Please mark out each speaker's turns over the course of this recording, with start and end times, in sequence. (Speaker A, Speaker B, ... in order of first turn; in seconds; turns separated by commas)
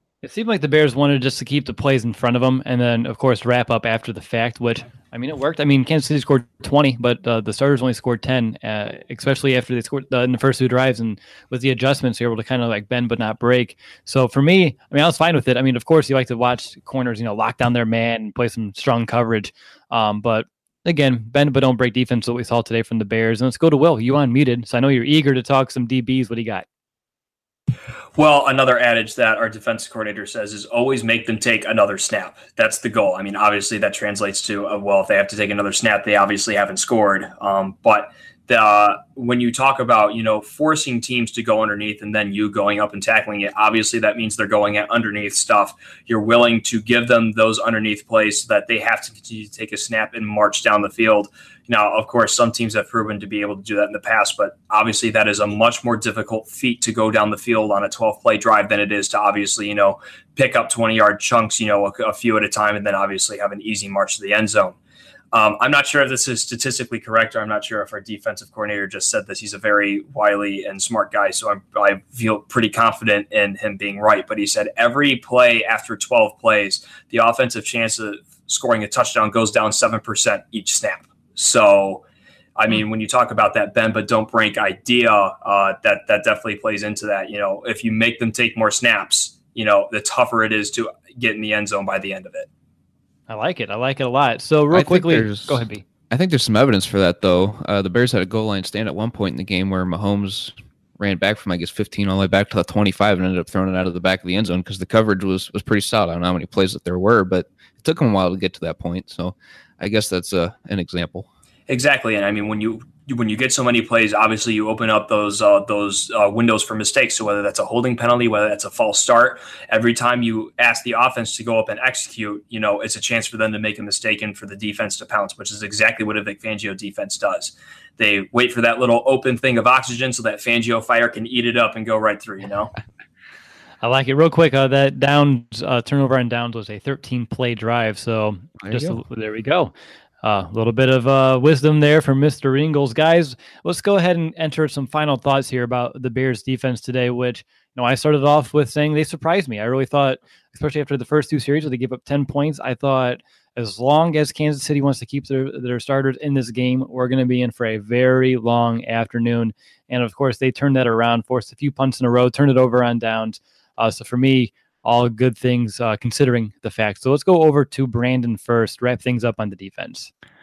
Speaker A: 0.2-26.6, Speaker B: 28.1-64.8, Speaker B: 65.3-92.5, Speaker A: 93.3-95.8, Speaker C: 94.7-111.3, Speaker B: 111.7-132.7, Speaker A: 133.8-170.1, Speaker C: 138.6-139.0